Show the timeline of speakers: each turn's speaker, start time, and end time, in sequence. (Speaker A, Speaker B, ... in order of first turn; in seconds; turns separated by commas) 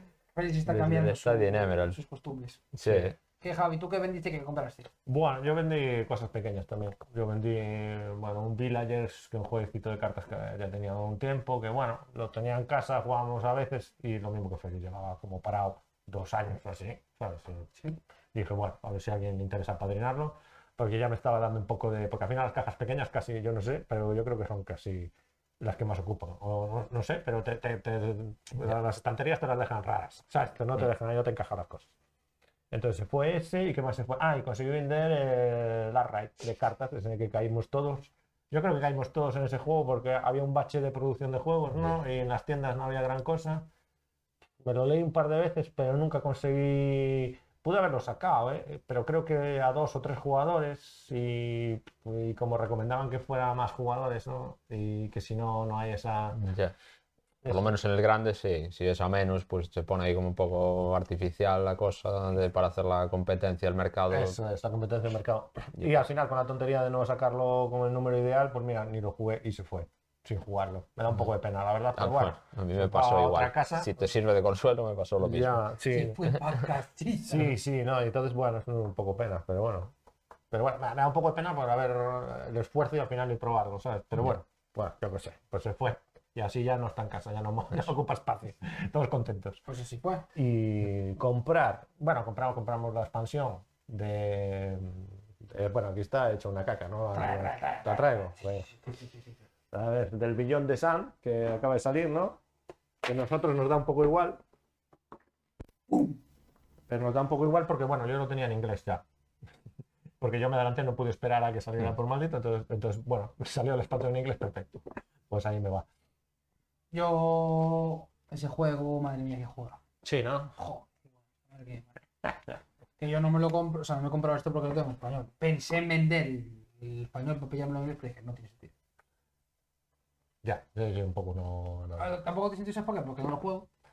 Speaker A: 0.3-2.6, Speaker B: 0.7-2.0, Speaker B: 2.8-3.2, Speaker C: 2.9-3.1, Speaker A: 3.4-4.9, Speaker C: 5.1-17.8, Speaker C: 18.3-31.9, Speaker C: 32.7-43.7, Speaker C: 44.6-56.4, Speaker B: 56.4-56.8, Speaker C: 57.4-57.7, Speaker B: 57.5-64.4, Speaker C: 64.1-73.9, Speaker B: 72.0-75.6, Speaker C: 75.2-76.2, Speaker A: 75.9-77.5, Speaker C: 77.3-79.9, Speaker C: 80.5-89.6, Speaker A: 89.7-90.3, Speaker C: 90.3-98.7, Speaker A: 97.1-99.4, Speaker C: 99.7-102.4, Speaker C: 103.0-104.4, Speaker C: 106.9-109.0, Speaker C: 110.2-115.9, Speaker A: 116.9-119.8, Speaker C: 120.0-120.5, Speaker A: 120.6-122.0, Speaker A: 123.0-128.7, Speaker C: 130.4-132.1, Speaker A: 132.0-133.7